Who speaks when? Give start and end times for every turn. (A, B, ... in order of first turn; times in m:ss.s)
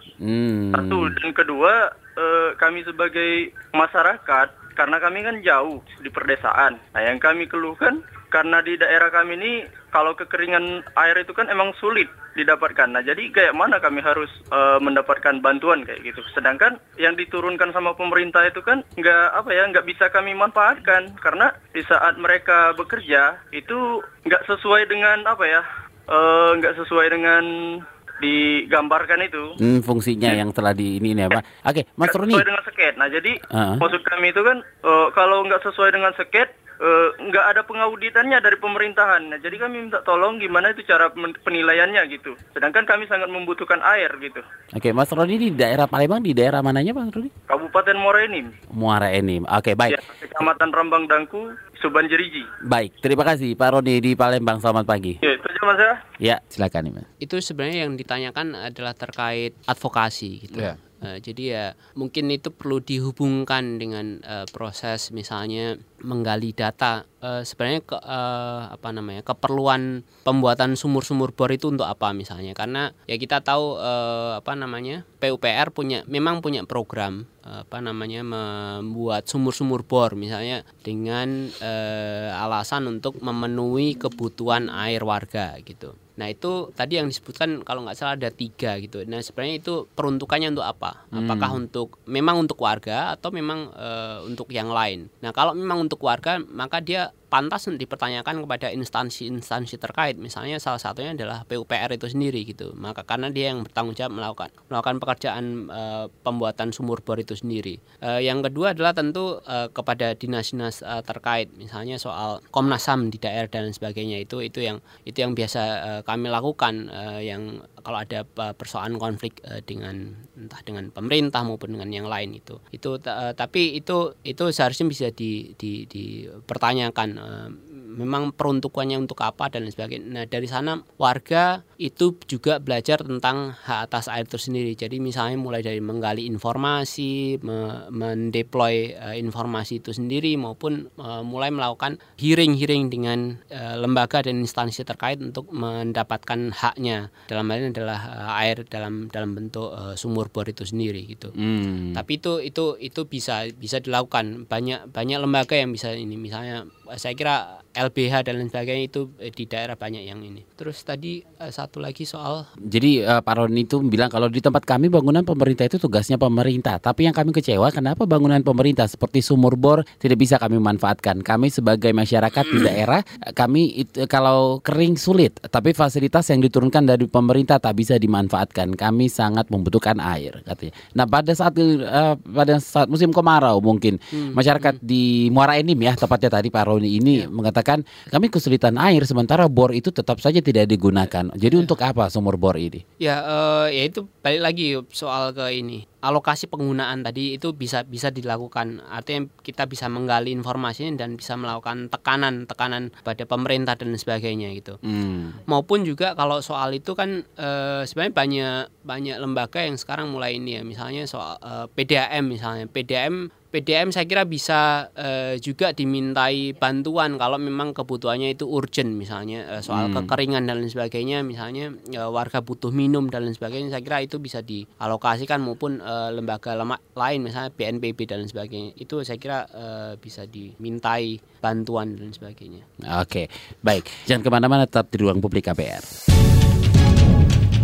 0:00.2-0:01.2 A
0:00.7-0:29.5 B
0:29.6-0:32.4 A
0:32.1-0:44.4 B
0:33.5-0:33.9 A
0:44.7-0:47.3 A
0:47.5-0:48.5 B
0:48.7-0:50.0 A
0:49.9-0:52.5 B
0:52.7-0:55.2 A
0:55.2-0:56.0 B
0:56.2-0:57.0 A
0:57.2-2:31.3 C
1:31.1-1:31.6 A
2:31.4-2:32.0 A
2:31.9-2:42.5 C
2:42.7-3:12.8 A
3:04.1-3:04.8 C
3:13.0-3:24.8 C
3:24.8-3:25.4 A
3:25.5-3:52.6 C
3:39.7-3:40.1 A
3:52.8-3:55.9 A